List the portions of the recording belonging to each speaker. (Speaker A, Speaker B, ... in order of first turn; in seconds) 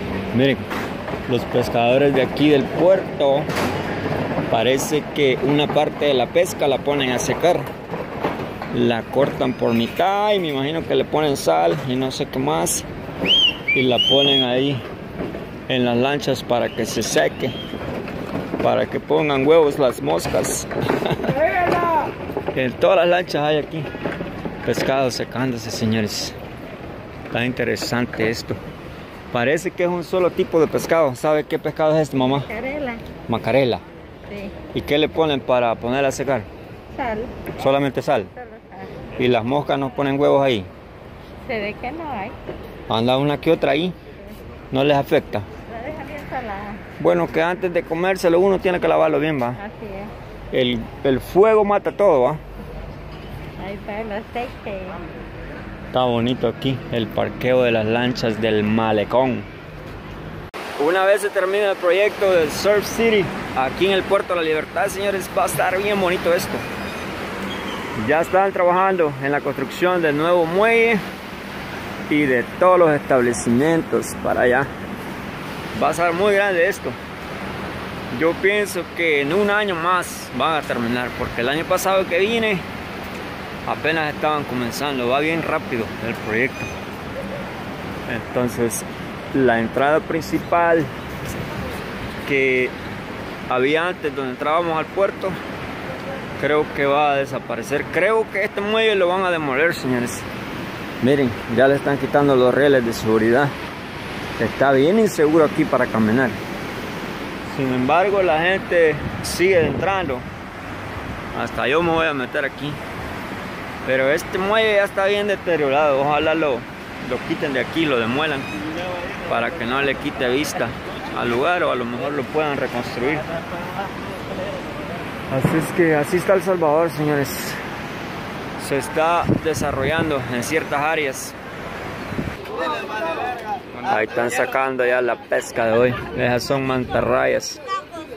Speaker A: 0.3-0.6, 1.3-3.5, 4.5-7.7, 8.7-12.9, 13.7-14.8, 15.7-17.5, 18.6-21.4, 22.5-23.9, 24.6-26.4, 27.3-28.6, 29.3-32.5, 33.3-33.8, 34.7-36.5, 37.5-38.3, 39.2-40.7, 42.9-44.0, 44.7-45.5, 47.0-49.6, 50.5-52.4, 55.9-59.5, 60.8-66.7, 68.0-71.0, 72.1-74.7, 75.7-77.0, 78.1-82.7, 83.7-86.7, 88.1-90.9, 92.3-92.7, 93.5-95.4, 96.4-100.3, 101.0-103.5, 104.4-106.4, 107.5-110.3, 111.3-112.8, 113.8-118.5, 119.3-123.3, 125.3-127.6, 128.6-131.4, 133.8-137.6
Speaker B: 32.4-33.0, 34.3-34.6, 37.0-37.5, 38.4-39.0, 41.4-42.4, 45.7-46.8, 49.6-50.1, 53.6-55.0